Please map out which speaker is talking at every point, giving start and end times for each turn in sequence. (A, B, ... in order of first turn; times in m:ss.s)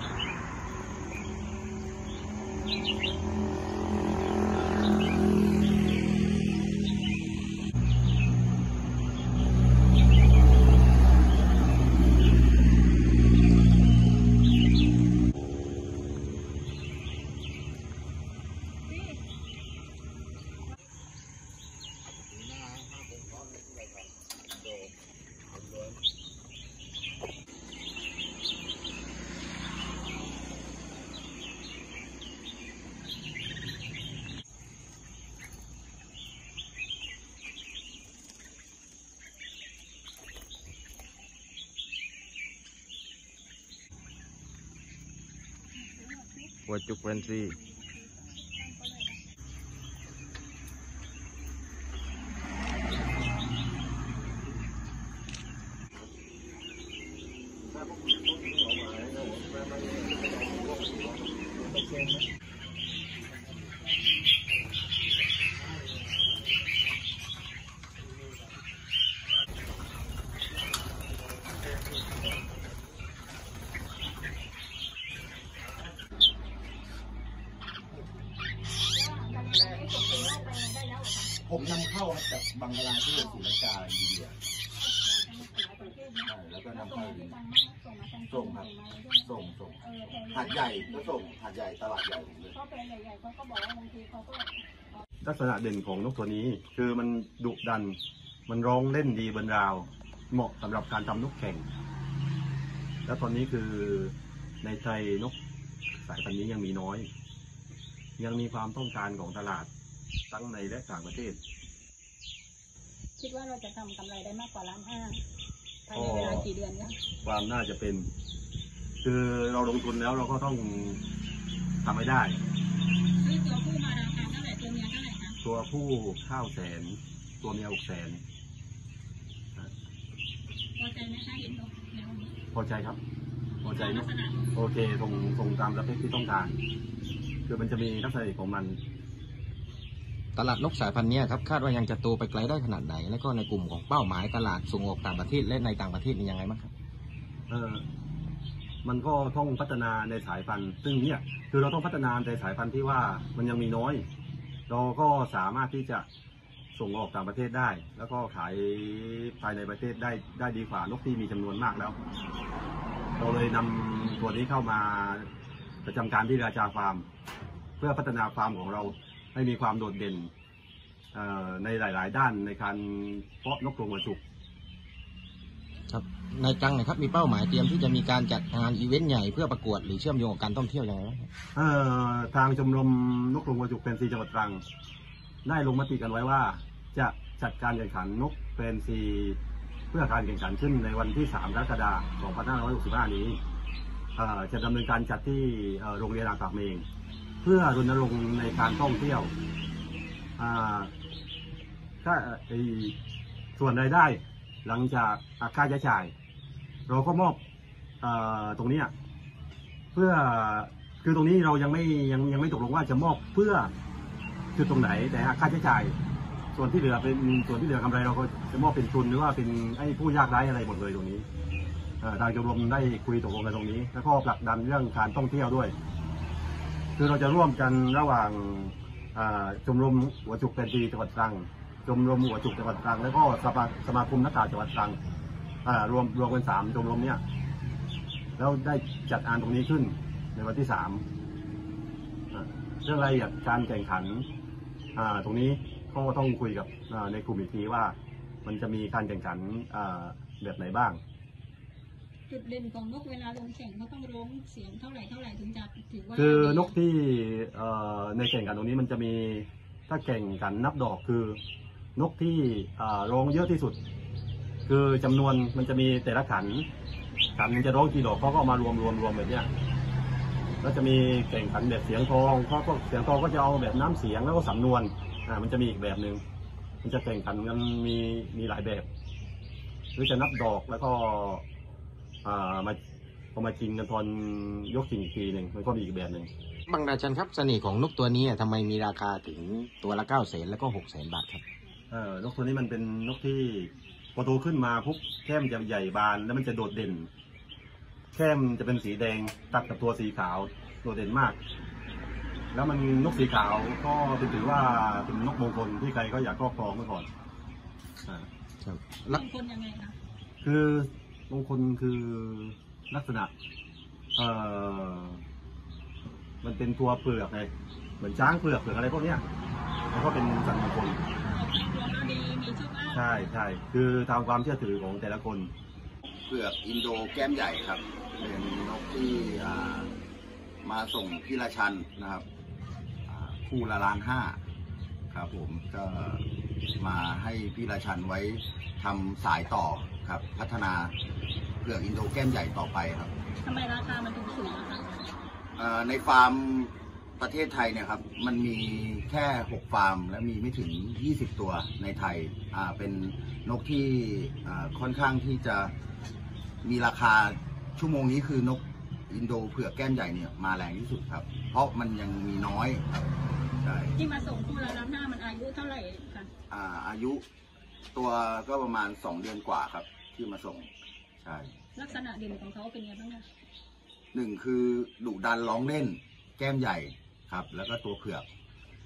0:18.9-0:19.2 A
0:22.4-0:23.9 B
0:45.7-0:49.2 A
0:46.7-0:47.6 C
0:57.6-1:02.2 D
1:18.9-1:21.3 A
1:21.4-1:24.4 B
1:23.1-1:23.4 A
1:24.8-1:31.3 A
1:26.3-1:27.4 B
1:28.3-1:28.7 B
1:29.2-1:32.6 B
1:32.5-1:35.0 A
1:35.2-1:41.6 D
1:43.0-1:45.3 D
1:46.0-1:47.1 D
1:48.2-1:49.7 D
1:50.3-1:51.4 D
1:53.2-1:55.2 A
1:55.9-1:57.0 A
1:55.9-1:56.5 D
1:57.2-1:58.1 D
1:59.0-2:01.0 D
2:01.8-2:02.4 D
2:03.2-2:05.4 A
2:05.4-2:08.2 D
2:10.8-2:12.4 A
2:12.5-2:13.0 D
2:13.6-2:14.5 A
2:13.6-2:16.5 D
2:17.5-2:18.8 D
2:20.3-2:26.7 C
2:27.5-2:27.8 D
2:28.8-2:34.0 D
2:34.7-2:36.0 D
2:36.8-2:42.0 D
2:43.2-2:45.3 D
2:45.8-2:47.0 D
2:47.8-2:50.3 D
2:51.1-2:54.2 D
2:55.9-3:01.3 C
3:01.5-3:04.6 D
3:05.4-3:09.4 D
3:09.9-3:13.4 D
3:14.2-3:16.8 D
3:17.4-3:19.3 D
3:20.4-3:20.9 D
3:22.0-3:23.0 D
3:23.6-3:26.1 D
3:26.9-3:27.4 D
3:28.0-3:28.9 D
3:29.9-3:33.7 D
3:34.6-3:36.0 D
3:36.5-3:41.2 D
3:42.0-3:45.8 D
3:47.0-3:55.0 D
3:55.6-3:57.2 D
3:58.4-4:01.0 D
4:02.3-4:04.3 D
4:05.0-4:11.0 D
4:12.3-4:16.7 A
4:16.1-4:21.4 D
4:22.0-4:23.8 D
4:24.7-4:26.7 D
4:27.4-4:29.5 D
4:30.6-4:36.2 D
4:36.8-4:38.9 D
4:40.0-4:41.4 D
4:42.2-4:42.8 D
4:43.4-4:46.3 D
4:46.7-4:51.4 C
4:51.9-4:57.1 D
4:58.1-5:01.4 D
5:02.5-5:07.1 D
5:08.6-5:09.2 C
5:09.1-5:10.0 A
5:10.4-5:13.3 D
5:14.2-5:15.2 D
5:16.4-5:19.2 D
5:19.9-5:21.0 D
5:21.2-5:23.3 A
5:22.9-5:25.5 D
5:26.3-5:29.9 B
5:30.6-5:32.2 B
5:33.1-5:34.4 B
5:35.1-5:36.2 B
5:36.8-5:40.9 B
5:41.6-5:43.1 B
5:43.4-5:45.0 A
5:45.6-5:55.7 B
5:56.6-6:03.9 B
6:04.0-6:06.3 A
6:06.5-6:07.2 B
6:07.9-6:10.7 B
6:11.2-6:11.5 B
6:11.8-6:13.2 A
6:14.1-6:18.3 B